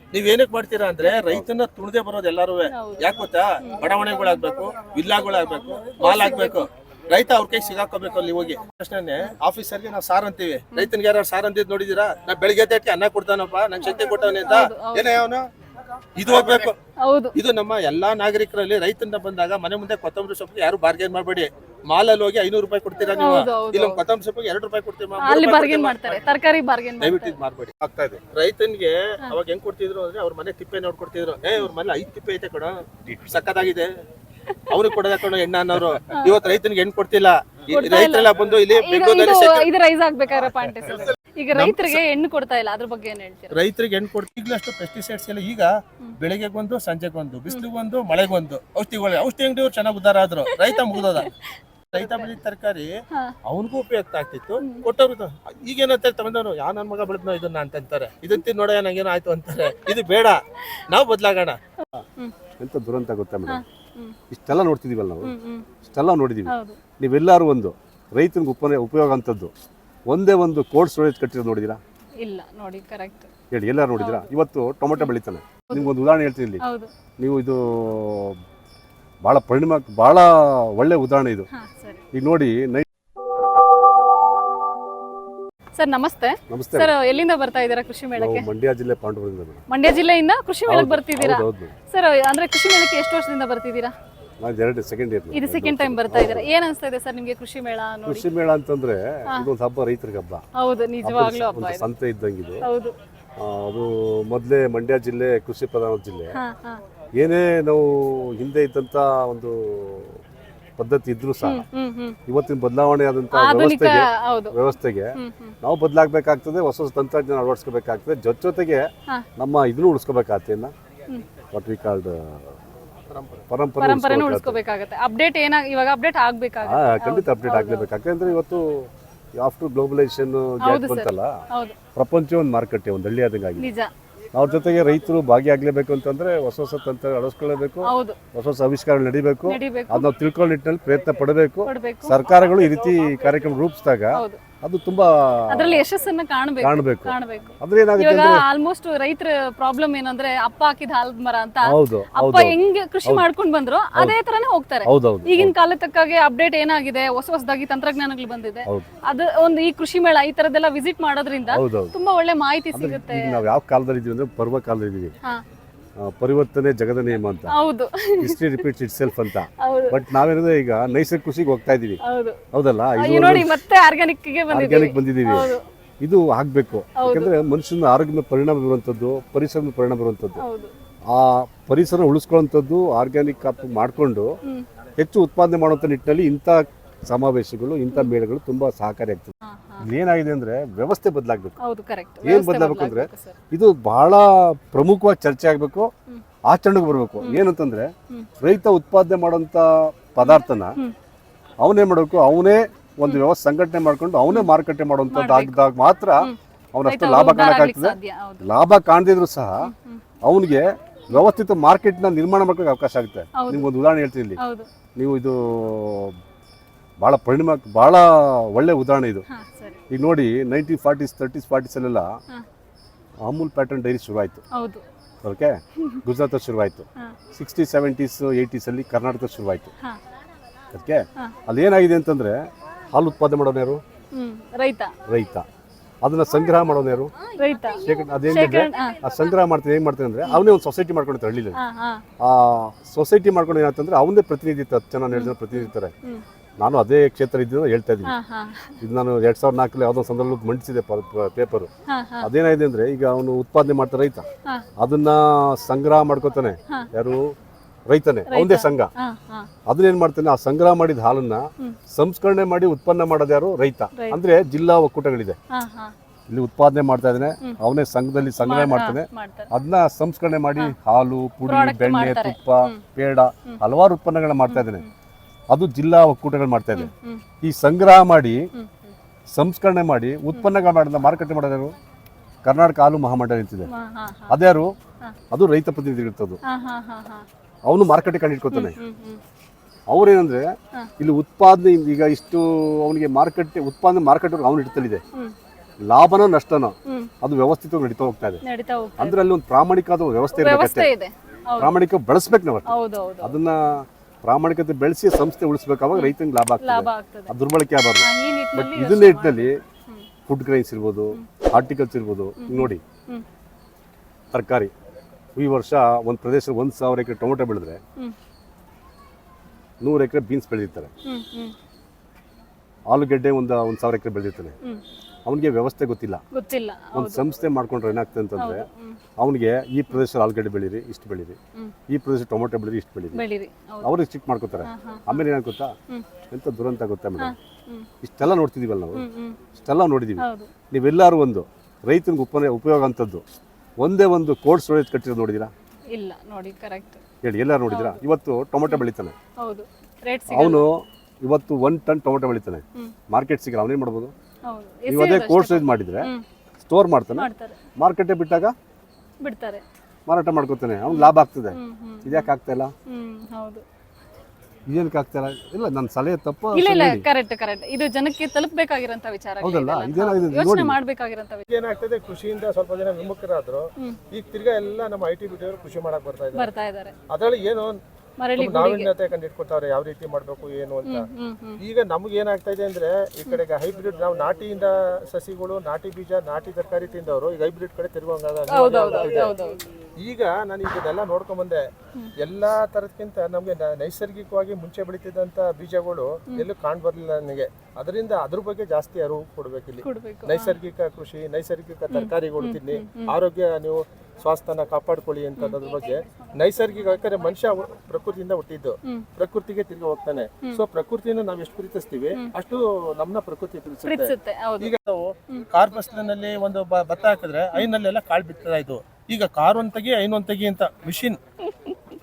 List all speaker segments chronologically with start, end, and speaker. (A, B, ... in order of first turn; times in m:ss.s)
0:00.1-0:15.4 A
0:01.0-0:01.4 B
0:02.7-0:03.9 B
0:06.0-0:06.7 B
0:13.8-0:15.2 B
0:16.2-0:16.8 A
0:17.0-0:17.3 B
0:17.3-0:26.3 A
0:23.2-0:24.0 B
0:25.2-0:27.4 B
0:27.0-0:27.7 A
0:27.8-0:28.2 C
0:28.3-0:33.9 A
0:33.0-0:33.7 C
0:34.5-0:35.0 B
0:34.7-0:39.7 A
0:36.1-0:36.4 B
0:37.7-0:43.5 B
0:41.5-0:42.0 A
0:43.5-0:51.3 A
0:50.5-0:52.3 B
0:51.9-0:52.9 A
0:53.4-1:00.4 A
0:54.6-0:54.9 B
1:00.9-1:01.6 A
1:02.6-1:03.6 C
1:03.5-1:04.2 B
1:04.3-1:09.5 C
1:05.2-1:05.7 B
1:06.5-1:06.8 B
1:10.1-1:11.8 C
1:12.2-1:13.3 B
1:13.5-1:16.6 C
1:14.0-1:14.3 B
1:16.6-1:16.9 B
1:17.2-1:18.4 C
1:19.2-1:21.5 C
1:21.5-1:22.0 B
1:22.1-1:22.9 C
1:25.8-1:28.5 B
1:26.5-1:26.9 C
1:28.2-1:29.6 C
1:29.7-1:33.9 B
1:30.7-1:31.7 C
1:34.4-1:36.5 C
1:35.3-1:38.2 B
1:38.0-1:40.4 C
1:40.6-1:41.9 B
1:41.0-1:42.7 C
1:42.6-1:42.9 B
1:43.4-1:46.4 C
1:46.3-1:46.8 B
1:47.2-1:50.2 C
1:50.8-1:51.6 C
1:51.4-1:52.2 B
1:52.3-2:00.7 C
1:53.3-1:54.6 B
1:55.1-1:55.5 B
2:01.5-2:02.6 C
2:03.1-2:03.4 A
2:03.5-2:04.6 C
2:03.8-2:07.9 B
2:06.6-2:11.3 C
2:10.6-2:11.8 B
2:11.9-2:13.7 C
2:13.6-2:13.9 B
2:14.3-2:25.8 C
2:17.8-2:18.2 B
2:19.4-2:20.1 B
2:21.6-2:22.2 B
2:25.5-2:43.4 B
2:26.6-2:28.4 C
2:31.6-2:33.3 C
2:34.8-2:35.5 C
2:41.5-2:41.9 C
2:42.7-2:45.1 C
2:46.0-2:47.6 C
2:47.5-2:48.6 B
2:48.2-2:52.0 C
2:49.6-2:50.0 B
2:52.0-2:52.4 B
2:52.5-2:53.6 C
2:53.0-2:55.6 B
2:54.5-3:00.4 C
2:57.0-2:57.3 B
3:00.4-3:00.7 B
3:01.1-3:04.3 C
3:05.0-3:11.6 C
3:09.4-3:09.8 B
3:11.6-3:13.4 B
3:12.2-3:15.9 C
3:16.5-3:20.8 C
3:20.2-3:20.9 B
3:21.6-3:29.7 C
3:25.1-3:25.6 B
3:26.2-3:28.5 B
3:29.6-3:30.0 B
3:30.2-3:34.4 C
3:33.4-3:33.7 B
3:34.4-3:34.7 B
3:35.0-3:36.2 C
3:37.0-3:39.2 C
3:39.3-3:39.8 B
3:39.9-3:42.1 C
3:43.2-3:44.4 C
3:44.6-3:44.8 B
3:45.2-3:49.7 C
3:50.7-3:52.4 C
3:52.9-3:53.8 C
3:54.1-3:54.9 B
3:55.1-3:55.4 C
3:56.0-3:57.1 C
3:57.3-3:59.0 B
3:57.8-4:01.6 C
4:01.6-4:02.0 B
4:02.2-4:05.9 C
4:05.1-4:06.2 B
4:06.6-4:08.1 C
4:08.0-4:08.8 B
4:08.8-4:11.7 C
4:11.9-4:12.3 B
4:12.2-4:14.2 C
4:14.8-4:17.3 C
4:17.9-4:18.9 C
4:18.3-4:19.5 B
4:19.7-4:25.4 C
4:25.5-4:25.9 B
4:26.3-4:34.8 C
4:28.4-4:29.5 B
4:31.4-4:32.8 B
4:34.5-4:34.9 B
4:35.5-4:36.9 C
4:36.7-4:37.2 B
4:37.4-4:38.4 C
4:38.5-4:38.9 B
4:39.3-4:41.7 C
4:42.4-4:43.7 C
4:43.7-4:44.4 B
4:44.3-4:44.7 C
4:45.3-4:46.4 C
4:46.4-4:47.2 B
4:47.6-4:48.8 C
4:48.5-4:49.2 B
4:49.9-4:50.4 C
4:51.0-4:55.0 C
4:55.9-4:58.4 C
4:58.4-4:59.2 B
4:59.0-5:00.9 C
5:00.3-5:01.7 B
5:01.6-5:09.6 C
5:02.7-5:03.4 B
5:05.9-5:07.3 B
5:08.0-5:10.1 B
5:10.3-5:12.8 C
5:12.4-5:13.2 B
5:14.3-5:14.7 C
5:15.4-5:17.8 C
5:19.8-5:20.9 C
5:21.0-5:21.5 B
5:22.9-5:24.5 C
5:25.2-5:26.2 C
5:26.3-5:27.3 B
5:26.9-5:28.7 C
5:28.4-5:29.0 B
5:29.2-5:31.4 C
5:31.9-5:33.2 C
5:33.1-5:33.9 B
5:33.8-5:35.7 C
5:34.6-5:35.2 B
5:36.3-5:37.3 C
5:37.2-5:37.9 B
5:38.0-5:39.0 C
5:38.9-5:39.4 B
5:39.6-5:43.2 C
5:40.2-5:40.5 B
5:43.8-5:45.5 C
5:45.9-5:47.0 B
5:47.2-5:49.1 C
5:47.7-5:48.0 B
5:49.4-5:50.7 B
5:50.3-5:54.1 C
5:54.5-5:56.2 B
5:54.9-5:56.1 C
5:56.6-5:58.5 C
5:57.2-5:57.6 B
5:59.2-5:59.6 B
6:00.1-6:02.7 C
6:00.9-6:02.3 B
6:02.9-6:03.6 B
6:04.7-6:07.0 C
6:06.5-6:11.4 B
6:09.4-6:10.8 C
6:11.5-6:16.5 A
6:16.3-6:16.9 B
6:17.1-6:17.8 A
6:18.2-6:18.9 B
6:18.4-6:21.0 A
6:20.8-6:21.6 B
6:21.6-6:29.3 A
6:28.5-6:29.6 B
6:30.0-6:31.6 A
6:32.2-7:01.2 A
6:39.8-6:40.6 B
6:41.9-6:43.1 B
6:53.8-6:54.7 B
7:01.5-7:01.8 B